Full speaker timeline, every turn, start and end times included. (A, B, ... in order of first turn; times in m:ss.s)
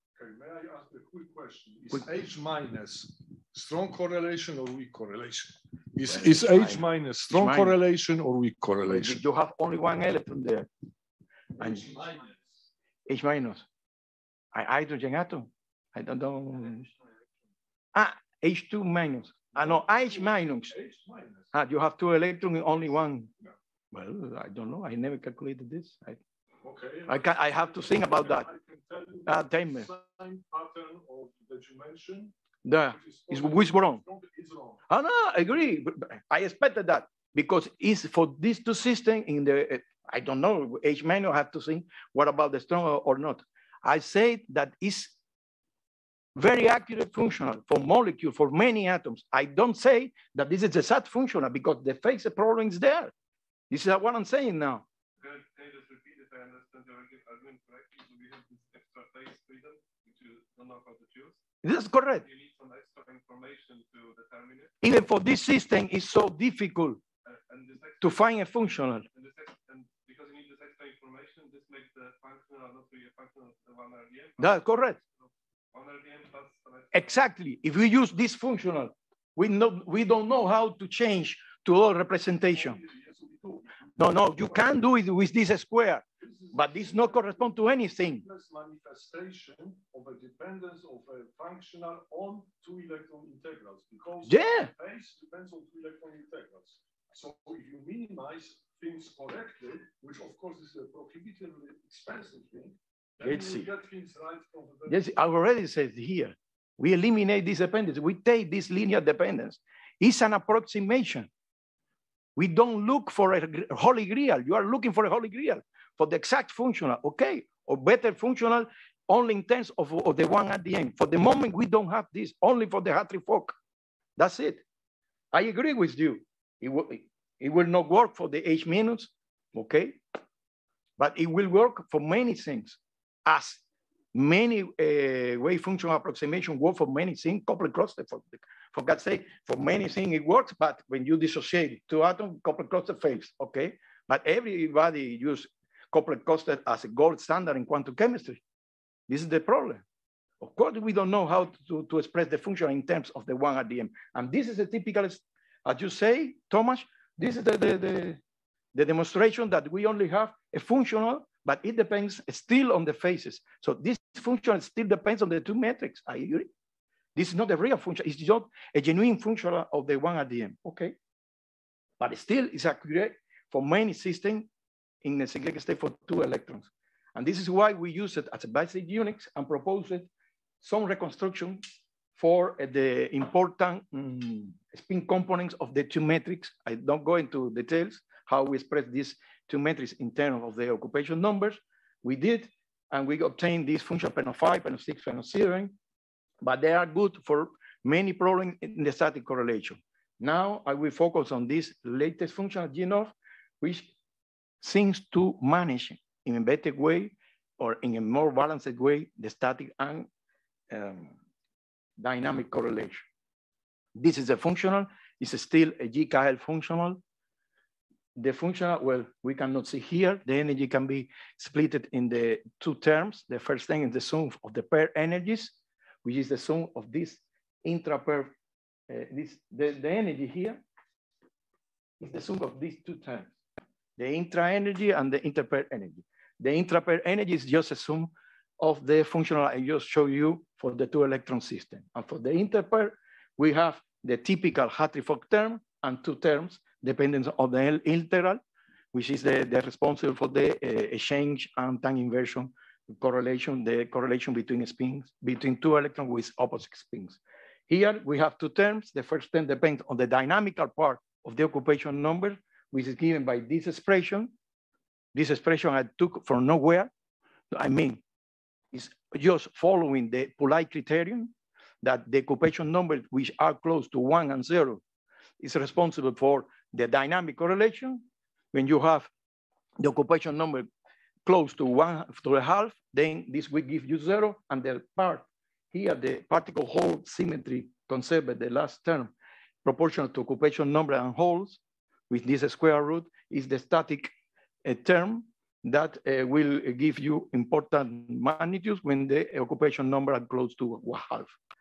0:00.2-0:09.2 A
0:06.1-0:07.8 B
0:08.9-0:10.7 B
0:11.6-0:12.1 B
0:11.6-0:12.3 A
0:13.1-0:13.7 B
0:14.5-0:16.9 B
0:17.9-0:20.7 B
0:19.6-0:21.5 A
0:21.5-0:23.3 B
0:23.9-0:26.2 B
0:26.6-0:32.3 A
0:27.1-0:28.5 B
0:29.3-0:29.9 B
0:32.6-0:34.0 B
0:32.9-0:34.8 A
0:34.9-0:45.1 B
0:46.4-0:53.1 B
0:53.7-0:54.8 B
0:55.2-1:01.4 C
1:01.6-1:02.3 B
1:02.2-1:04.7 C
1:04.8-1:07.0 B
1:07.3-1:08.4 C
1:08.0-1:09.1 B
1:09.1-1:15.0 C
1:14.4-1:15.0 B
1:15.7-1:17.2 C
1:16.9-1:22.8 B
1:22.5-1:23.7 A
1:24.0-1:28.2 B
1:26.2-1:27.5 A
1:28.2-1:45.0 A
1:34.3-1:34.7 B
1:43.2-1:43.7 B
1:44.9-1:51.3 B
1:52.4-2:03.6 B
2:04.2-2:04.6 B
2:05.3-2:10.0 B
2:11.0-2:13.6 B
2:14.1-2:28.4 B
2:29.1-2:29.8 B
2:30.4-2:38.2 B
2:38.7-2:46.5 B
2:47.2-2:50.9 B
2:52.0-2:54.5 B
2:55.0-3:00.1 B
3:00.6-3:01.6 B
3:02.2-3:15.7 B
3:16.4-3:23.9 B
3:24.6-3:30.1 B
3:30.7-3:31.2 B
3:32.0-3:33.1 B
3:34.0-3:37.0 B
3:38.2-3:48.3 B
3:48.9-3:50.6 B
3:52.0-3:53.4 B
3:54.0-4:08.4 B
4:08.9-4:24.3 B
4:25.1-4:26.9 B
4:27.5-4:28.0 B
4:28.7-4:34.8 B
4:35.4-4:38.0 B
4:38.5-4:39.1 B
4:39.8-4:40.7 B
4:41.3-4:49.1 B
4:49.6-4:54.1 B
4:54.6-5:01.3 B